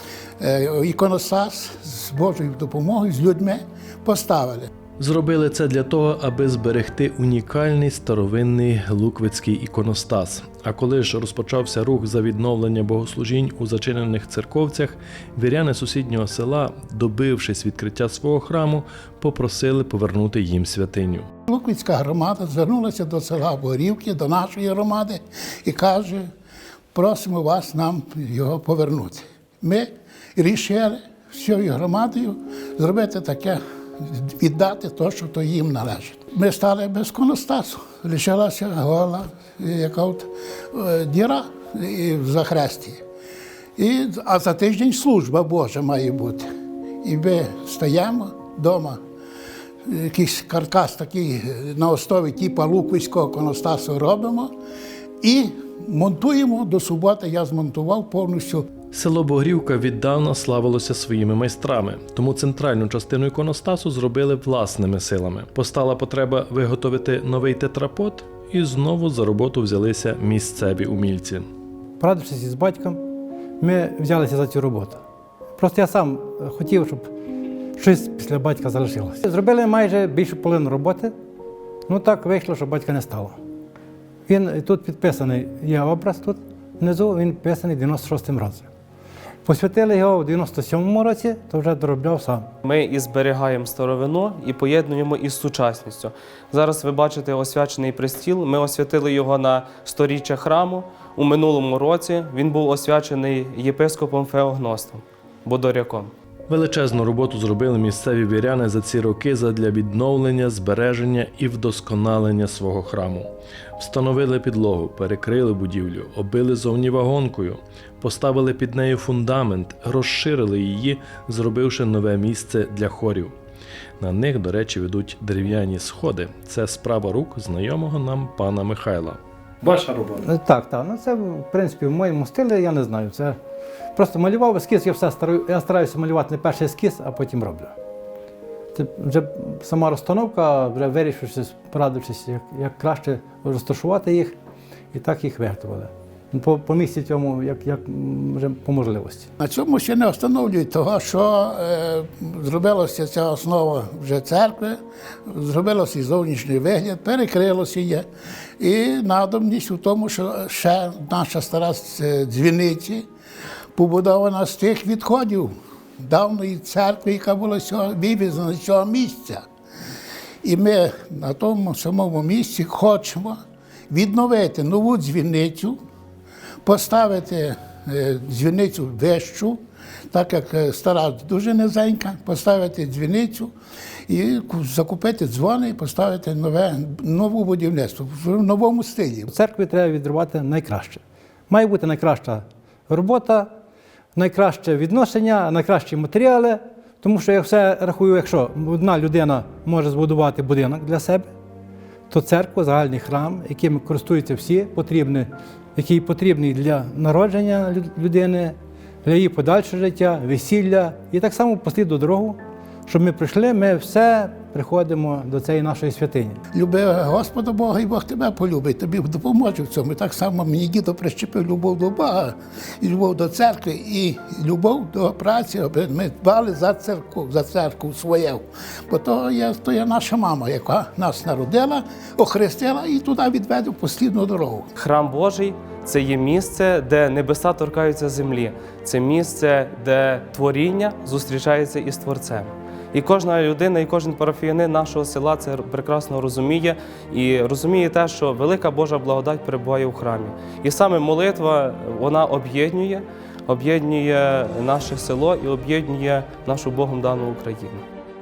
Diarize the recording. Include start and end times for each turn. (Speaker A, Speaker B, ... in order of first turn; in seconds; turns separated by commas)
Speaker A: 0.4-4.7, Speaker B: 5.0-21.3, Speaker A: 21.5-26.3, Speaker A: 26.9-43.0, Speaker A: 43.8-46.5, Speaker A: 47.0-49.0, Speaker A: 49.9-54.5, Speaker A: 55.2-58.7, Speaker B: 58.9-71.4, Speaker C: 72.0-73.0, Speaker C: 73.6-75.0, Speaker C: 75.6-77.1, Speaker C: 77.8-81.2, Speaker C: 81.9-83.4, Speaker C: 84.3-88.7, Speaker C: 89.5-92.5, Speaker D: 92.6-106.1, Speaker B: 106.5-123.3, Speaker B: 124.0-130.3, Speaker C: 130.2-133.4, Speaker C: 133.9-137.8, Speaker C: 138.7-144.4, Speaker C: 144.9-149.3, Speaker A: 149.4-158.1, Speaker A: 158.6-163.1, Speaker A: 163.8-169.4, Speaker A: 170.4-175.8, Speaker A: 176.7-179.6, Speaker A: 180.1-183.5, Speaker A: 184.1-189.3, Speaker C: 189.3-193.5, Speaker C: 194.2-201.3, Speaker C: 202.1-216.4, Speaker A: 216.5-234.7, Speaker D: 234.8-257.9